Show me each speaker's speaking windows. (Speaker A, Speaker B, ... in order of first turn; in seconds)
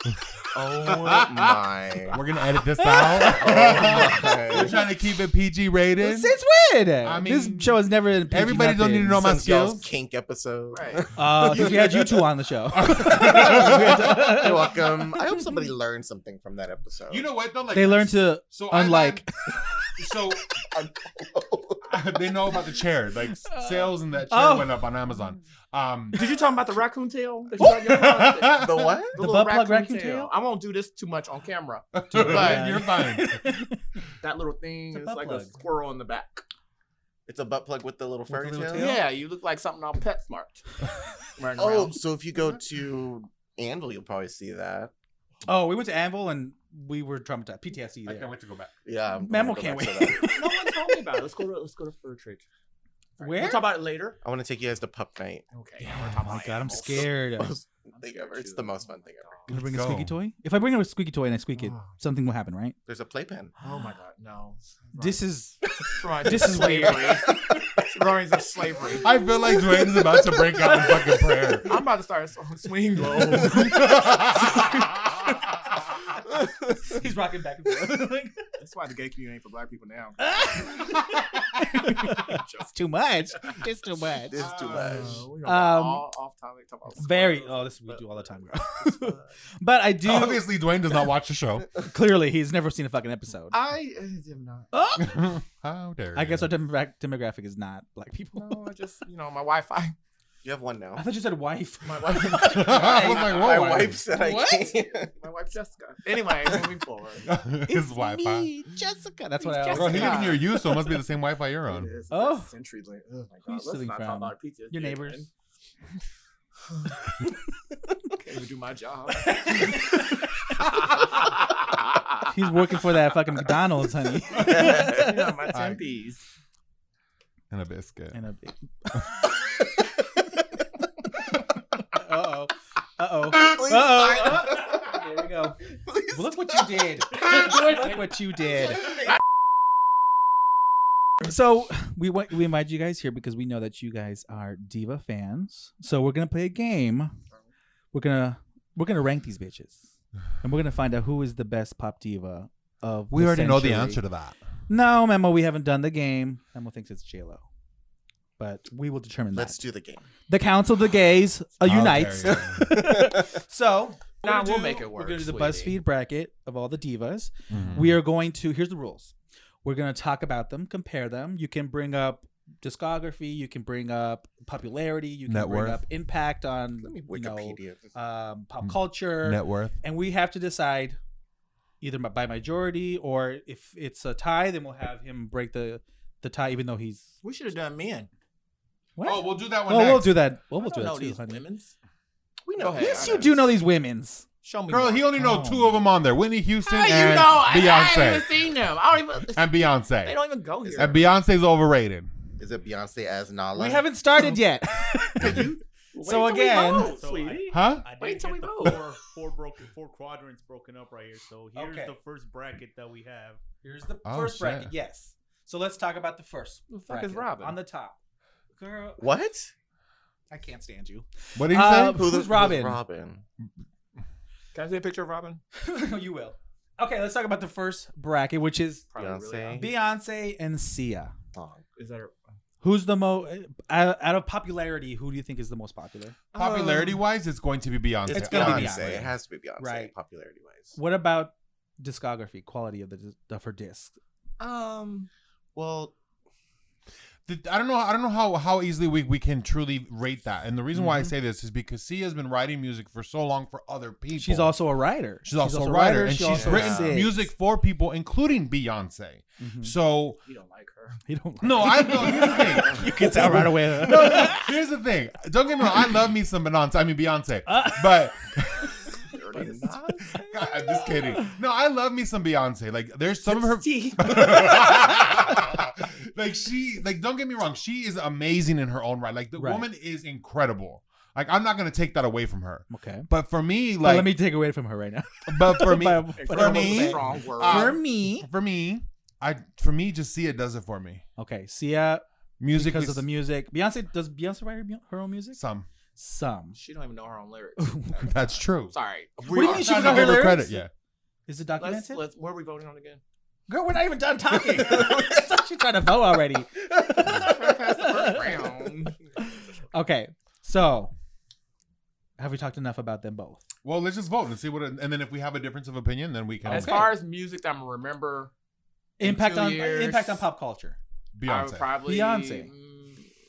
Speaker A: 0.5-2.2, 3.3-4.8, 9.2-12.2, 12.9-17.3, 20.7-21.8, 28.5-29.1, 37.3-39.0, 41.6-44.9, 48.8-50.3, 54.2-55.4, 56.8-59.4, 62.9-63.5, 84.2-85.2, 100.4-101.0, 103.1-105.1, 124.4-124.9, 133.3-135.0, 135.7-136.3, 159.3-160.0, 162.8-163.1, 176.8-177.9, 192.4-193.3, 202.4-203.9, 219.0-219.5, 221.9-223.2, 228.9-229.7, 231.3-231.6, 238.1-240.8, 245.5-245.9, 256.2-257.0, 304.7-305.1
Speaker B: 2.1-6.3, 7.0-9.9, 12.7-14.2, 17.1-19.2, 20.0-20.5, 21.8-26.2, 27.6-29.0, 31.9-33.5, 38.3-38.9, 48.0-48.7, 59.5-60.1, 69.0-71.7, 73.3-75.3, 84.4-85.2, 90.0-91.8, 95.0-96.5, 102.4-104.0, 107.2-108.5, 109.7-111.9, 125.5-125.8, 127.5-128.2, 153.1-154.4, 161.6-162.9, 167.5-168.0, 175.3-175.8, 178.6-179.8, 189.0-190.2, 194.7-198.4, 199.3-202.1, 205.2-205.5, 207.5-207.8, 214.0-214.7, 221.3-222.1, 236.3-238.9, 247.2-254.6, 255.2-260.2, 261.4-269.0, 270.2-284.2, 285.2-291.0, 292.4-293.0, 295.4-295.7, 298.0-300.7, 313.6-316.8, 321.1-321.7
Speaker C: 2.8-3.4, 6.0-9.3, 11.1-15.6, 17.7-19.5, 23.3-24.8, 27.6-28.1, 29.1-30.3, 32.1-33.8, 34.9-35.5, 38.3-39.0, 45.5-48.3, 49.2-50.9, 53.2-53.7, 55.8-57.6, 59.5-62.8, 65.0-65.6, 66.2-67.2, 70.6-70.9, 76.8-78.4, 80.2-84.4, 85.4-86.0, 87.0-90.5, 91.8-93.5, 94.7-95.2, 96.1-98.6, 101.0-104.7, 107.7-110.5, 112.1-112.5, 113.5-115.3, 119.3-120.1, 122.2-125.5, 128.1-129.1, 131.9-138.9, 141.2-147.1, 147.9-149.9, 150.4-154.0, 154.7-157.4, 158.4-159.6, 160.3-181.0, 181.8-187.1, 189.0-191.4, 192.8-194.2, 195.1-195.8, 203.5-207.0, 211.5-211.9, 213.6-218.0, 218.6-219.0, 220.3-222.8, 225.6-228.8, 229.5-231.1, 232.6-236.2, 238.1-239.9, 240.7-243.9, 250.7-251.1, 254.2-257.3, 259.4-259.7, 261.1-264.5, 267.5-268.0, 269.4-269.8, 279.4-279.7, 282.7-283.1, 283.8-288.3, 291.2-295.4, 295.9-296.6, 297.6-298.1, 299.3-300.6, 301.3-302.0, 303.5-308.7, 309.2-310.9, 312.2-313.4, 316.4-316.9, 319.0-320.8, 321.8-322.5
Speaker D: 10.7-11.1, 26.1-32.7, 34.2-36.4, 38.7-40.6, 41.4-42.0, 50.2-52.4, 53.2-54.2, 55.5-57.1, 57.9-59.5, 63.6-65.2, 65.8-69.1, 71.6-74.5, 78.6-80.8, 81.8-82.7, 84.7-89.3, 93.5-94.8, 98.3-99.9, 101.8-103.5, 104.3-107.3, 109.4-110.5, 111.7-115.3, 118.1-120.0, 120.6-122.1, 124.4-126.2, 164.2-165.8, 187.2-188.1, 190.6-191.7, 192.5-193.4, 194.4-195.1, 196.6-199.5, 200.0-201.1, 205.2-208.8, 216.7-217.6, 224.5-225.4, 228.9-229.7, 231.8-232.1, 236.3-237.0, 244.4-245.1, 260.2-261.0, 261.8-263.2, 268.9-271.2, 273.3-275.1, 286.1-287.8, 296.5-298.1, 298.7-300.3, 301.6-303.0, 307.0-309.0, 316.5-318.3, 319.0-320.2, 321.2-323.1
Speaker E: 206.5-213.4